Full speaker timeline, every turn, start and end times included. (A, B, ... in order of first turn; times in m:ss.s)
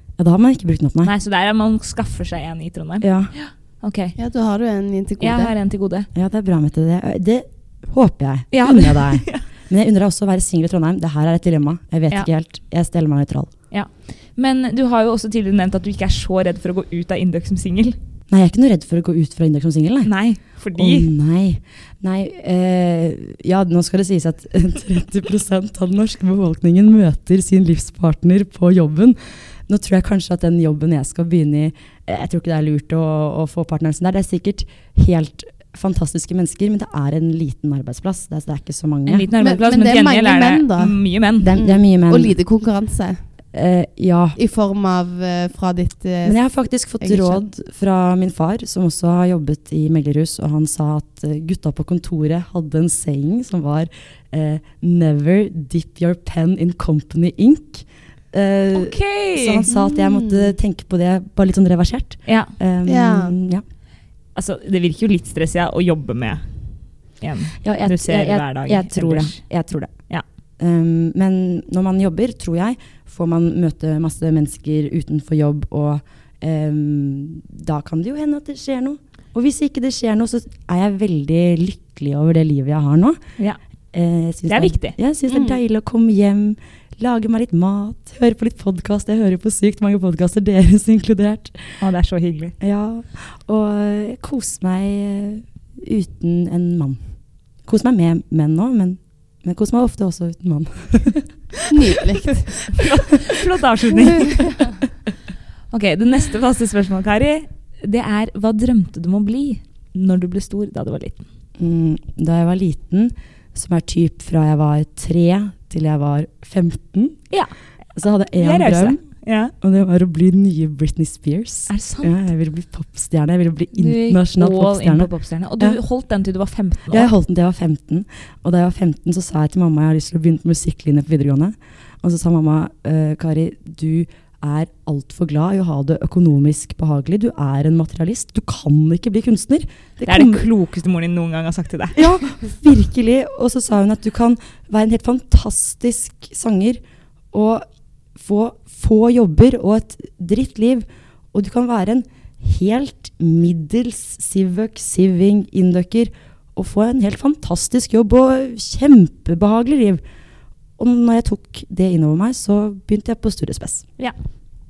0:00.2-0:01.1 A
0:01.0-0:04.2 B
0:03.0-0:03.3 A
0:04.2-0:05.5 C
0:05.2-0:06.1 B
0:06.1-0:13.5 A
0:08.5-0:09.4 B
0:13.7-0:18.0 B
0:18.3-0:39.3 A
0:20.0-0:21.1 B
0:39.0-0:41.5 B
0:39.4-0:41.0 C
0:41.4-0:42.3 A
0:41.5-0:43.2 C
0:43.5-0:44.4 A
0:44.4-0:46.4 C
0:46.2-1:03.6 A
0:47.0-0:47.4 C
0:58.7-0:59.6 B
0:59.7-1:00.5 C
1:02.2-1:02.5 B
1:02.8-1:03.3 C
1:04.3-1:06.4 B
1:07.2-1:09.4 B
1:07.6-1:09.9 A
1:10.6-1:23.2 A
1:23.9-1:31.8 A
1:24.5-1:25.0 B
1:25.3-1:25.6 C
1:31.8-1:32.5 B
1:32.6-1:37.0 A
1:37.6-1:41.3 A
1:41.7-1:42.6 C
1:42.6-1:44.7 B
1:45.7-1:51.2 B
1:51.6-1:57.3 A
1:57.3-1:57.6 B
1:57.9-1:59.0 A
1:58.4-1:59.5 B
1:59.6-2:05.8 A
2:01.7-2:02.1 B
2:03.7-2:07.1 B
2:06.9-2:20.5 A
2:20.0-2:22.3 B
2:21.9-2:26.8 A
2:27.3-2:40.0 A
2:40.8-2:43.8 A